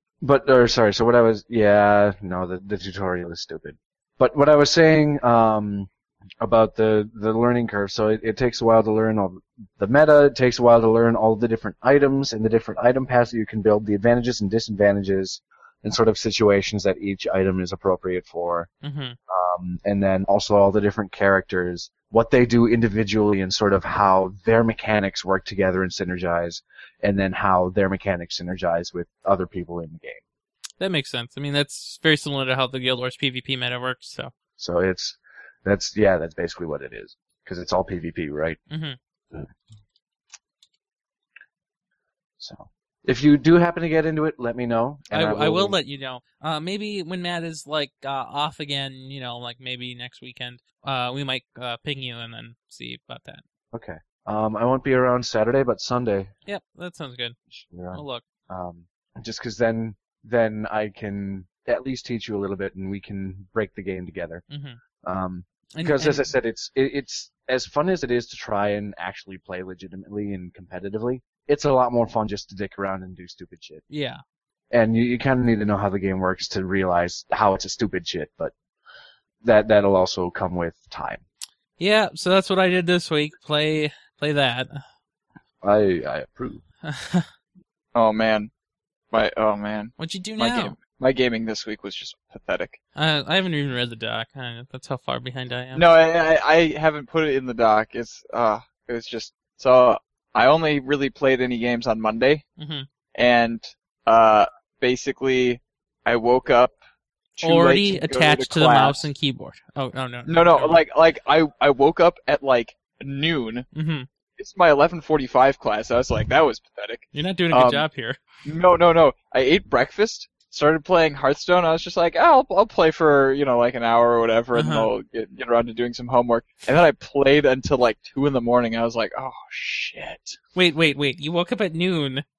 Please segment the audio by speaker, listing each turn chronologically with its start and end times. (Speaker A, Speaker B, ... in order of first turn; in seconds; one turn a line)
Speaker A: 0.2-5.9
Speaker A: 6.4-18.7
Speaker B: 18.8-19.2
Speaker A: 19.3-30.2
Speaker B: 30.8-34.3
Speaker A: 34.6-38.6
Speaker B: 38.7-39.0
Speaker A: 42.4-45.8
Speaker B: 45.1-53.4
Speaker A: 53.7-56.3
Speaker B: 56.5-57.4
Speaker A: 57.5-64.4
Speaker B: 57.9-58.2
Speaker B: 64.5-64.8
Speaker A: 65.0-73.8
Speaker B: 65.8-66.3
Speaker B: 73.9-74.2
Speaker A: 74.7-78.5
Speaker A: 79.4-81.2
Speaker B: 81.8-84.8
Speaker A: 85.6-86.6
Speaker B: 86.9-87.3
Speaker C: 87.9-88.5
Speaker C: 89.1-92.8
Speaker B: 90.0-90.8
Speaker B: 93.0-95.8
Speaker C: 95.8-102.5
Speaker B: 102.6-102.9
Speaker C: 103.2-106.8
Speaker C: 107.4-109.0
Speaker B: 107.4-110.8
Speaker C: 110.3-113.7
Speaker B: 113.8-114.1
Speaker C: 114.4-117.9
Speaker B: 117.1-118.2
Speaker C: 118.4-130.4
Speaker B: 124.5-124.9
Speaker B: 130.6-132.2